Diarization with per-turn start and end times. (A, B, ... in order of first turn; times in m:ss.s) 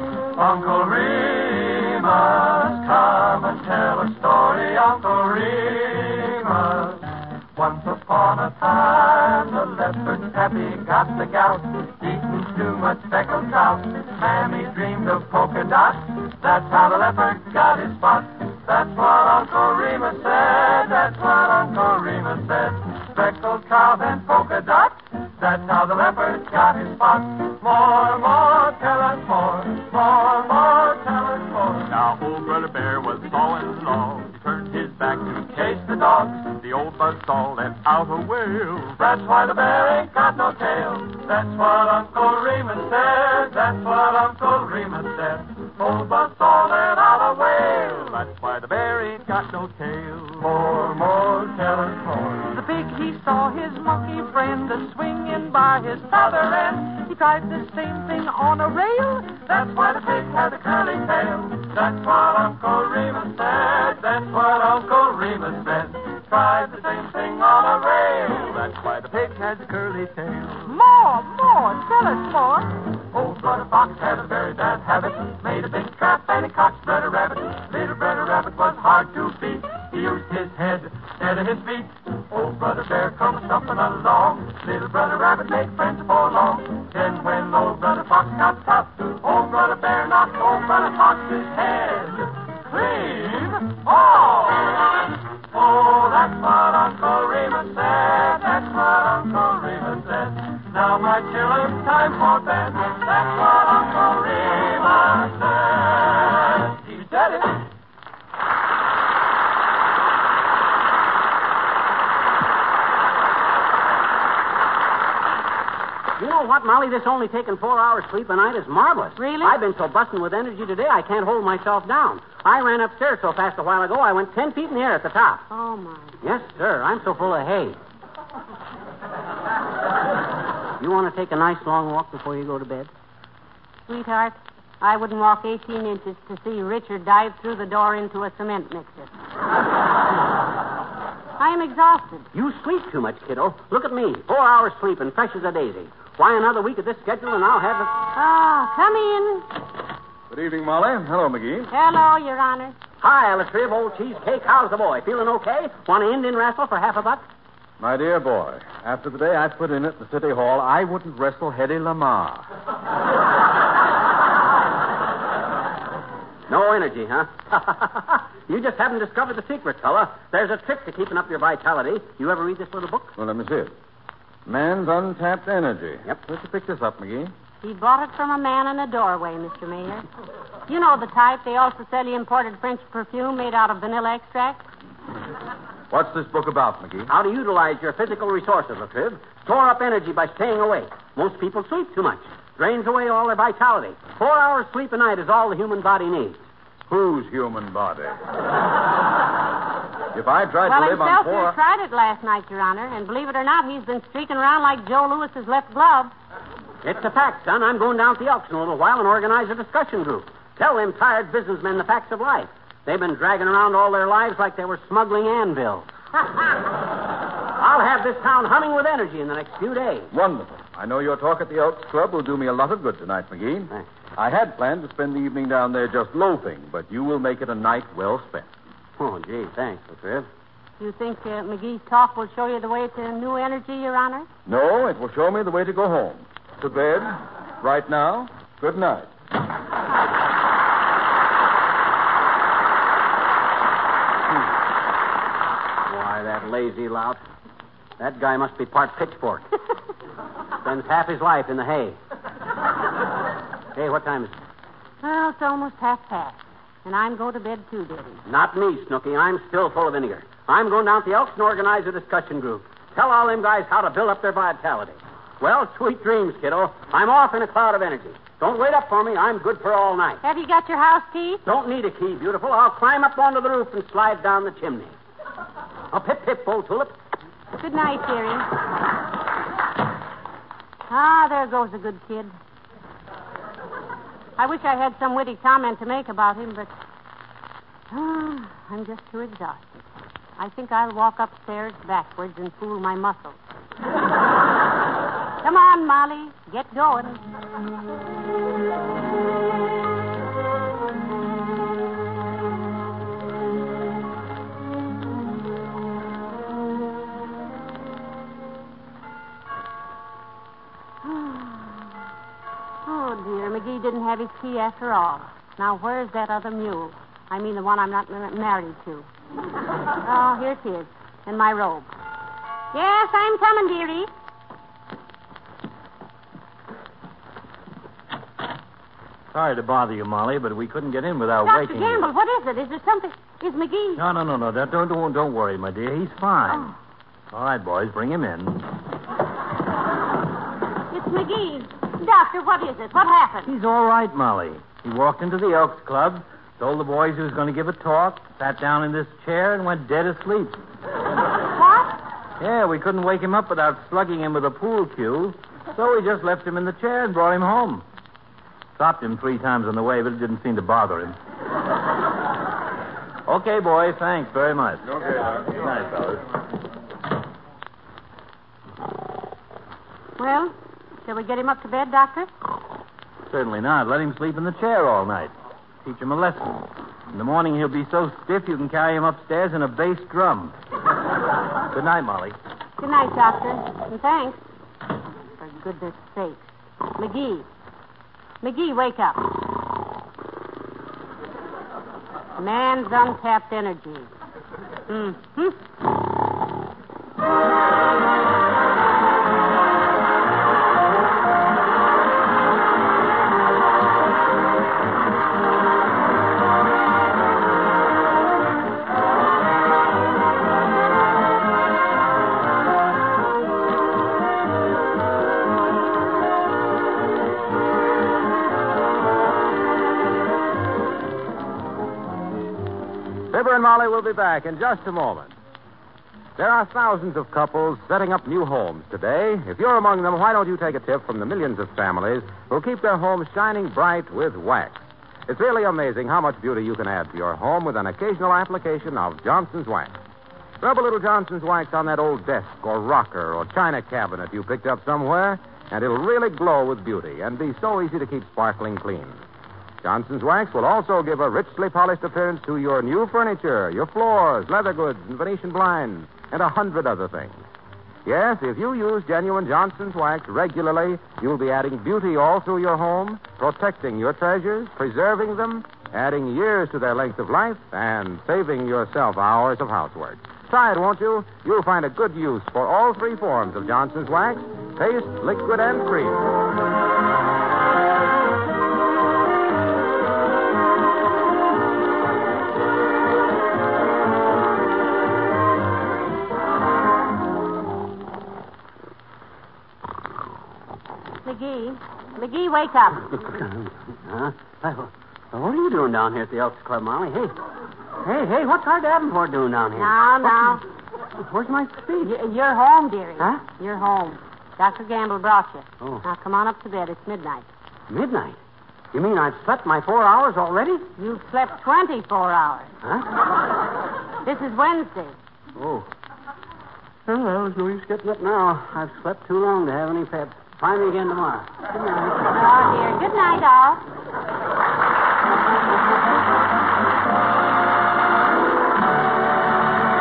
0:00.4-1:47.6 A
1:56.2-2:05.4 B
1:59.2-1:59.6 C
2:05.5-2:06.2 C
2:06.2-2:07.8 B
2:10.8-2:12.9 B
2:13.9-2:19.1 C
2:21.4-2:22.2 C
2:22.3-2:27.9 B
2:28.1-2:29.5 C
2:30.3-2:31.7 D
2:31.7-2:32.7 C
2:33.0-2:37.2 B
2:37.8-2:42.4 D
2:46.5-2:53.2 B
2:53.2-2:53.7 D
2:54.4-2:57.3 D
2:57.6-3:00.0 C
3:00.7-3:04.6 C
3:05.9-3:07.1 D
3:07.1-3:16.4 B
3:16.9-3:18.1 D
3:20.1-3:21.6 D
3:20.6-3:26.1 C
3:26.8-3:35.9 B
3:37.6-3:40.1 B
3:40.1-3:48.5 D
3:49.0-3:50.3 B
3:50.8-3:54.3 C
3:54.4-3:59.1 D
4:05.9-4:07.2 B
4:08.0-4:09.4 B
4:10.6-4:12.0 B
4:13.7-4:14.3 B
4:15.0-4:18.2 C
4:18.2-4:30.2 B
4:30.2-4:31.4 C
4:31.4-4:34.9 B
4:35.9-4:36.9 B
4:37.6-4:38.5 C
4:40.9-4:42.3 C
4:44.4-4:46.7 C
4:47.9-4:49.8 C
4:50.4-4:53.4 C
4:55.4-4:57.2 C
5:11.0-5:11.9 C
5:12.8-5:19.1 C
5:20.0-5:21.9 C
5:22.7-5:24.1 C
5:29.3-5:32.1 E
5:31.4-5:34.0 C
5:34.0-5:36.7 E
5:37.3-5:38.6 E
5:40.9-5:43.5 C
5:43.4-5:50.6 E
5:51.6-5:51.9 C
5:52.4-5:57.8 E
5:58.8-6:01.2 E
6:03.2-6:06.2 E
6:05.1-6:05.4 D
6:10.2-6:10.5 C
6:11.0-6:12.3 C
6:13.3-6:15.3 E
6:15.8-6:20.6 E
6:21.7-6:22.4 E
6:22.8-6:24.4 C
6:25.4-6:26.4 C
6:27.0-6:27.4 C
6:28.4-6:29.2 C
6:32.4-6:34.1 C
6:34.9-6:35.6 C
7:03.3-7:05.3 F
7:06.4-7:20.0 F
7:20.6-7:29.2 F
7:29.8-7:37.4 F
7:38.0-7:56.3 F
8:11.2-8:13.1 C
8:13.2-8:17.3 B
8:18.0-8:20.6 B
8:19.8-8:20.6 C
8:21.2-8:22.1 B
8:22.0-8:27.5 C
8:27.9-8:28.4 B
8:28.9-8:30.9 B
8:31.0-8:32.7 C
8:34.2-8:35.2 C
8:35.6-8:35.8 B
8:37.1-8:42.2 B
8:42.3-8:43.8 C